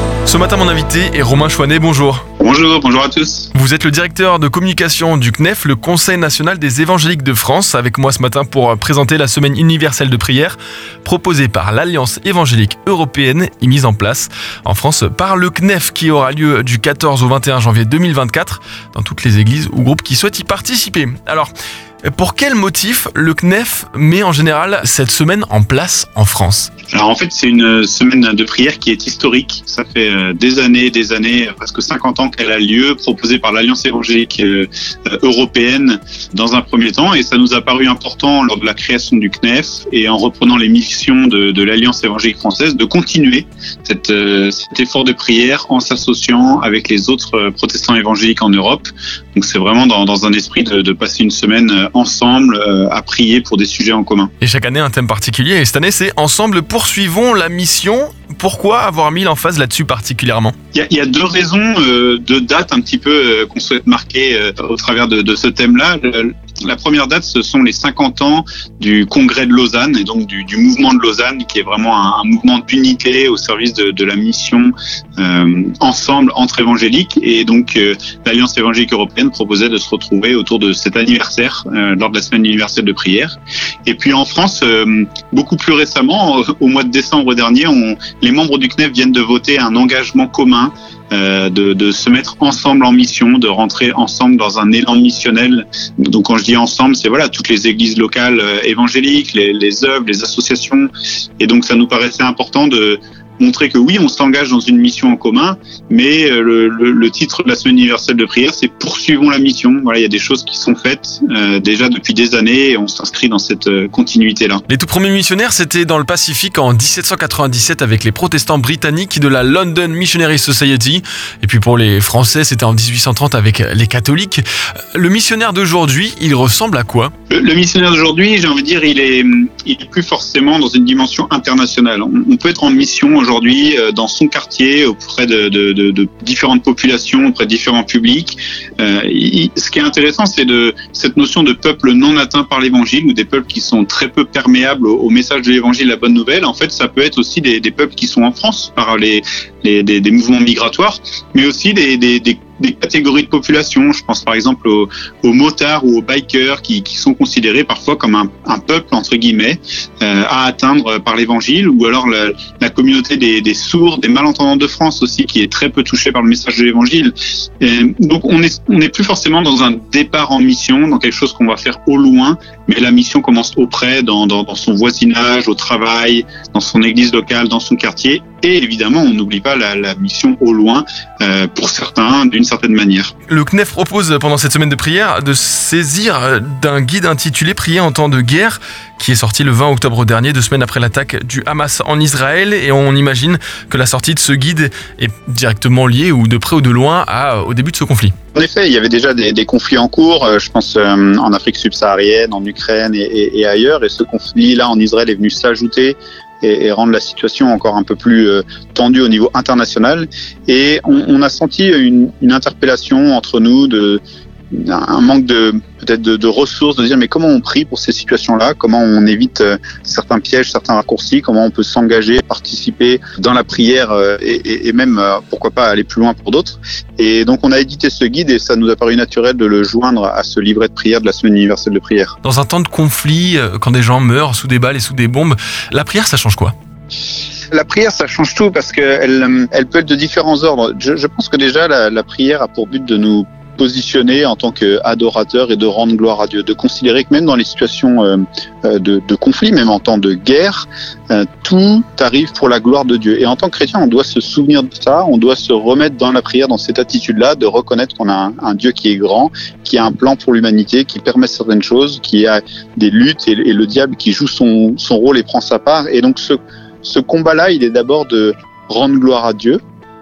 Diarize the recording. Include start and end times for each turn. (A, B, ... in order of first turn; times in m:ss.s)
0:00.2-0:02.2 A
0:02.4-0:03.5 B
0:03.5-0:21.5 A
0:22.1-0:26.7 A
0:26.9-0:54.3 B
0:54.4-1:00.6 A
1:00.7-1:54.6 B
1:54.7-2:04.4 A
2:04.9-2:07.1 A
2:07.3-3:03.1 B
3:03.3-3:18.1 A
3:18.3-3:34.0 B
3:34.5-3:52.2 B
3:52.2-3:56.5 A
3:57.5-4:29.6 B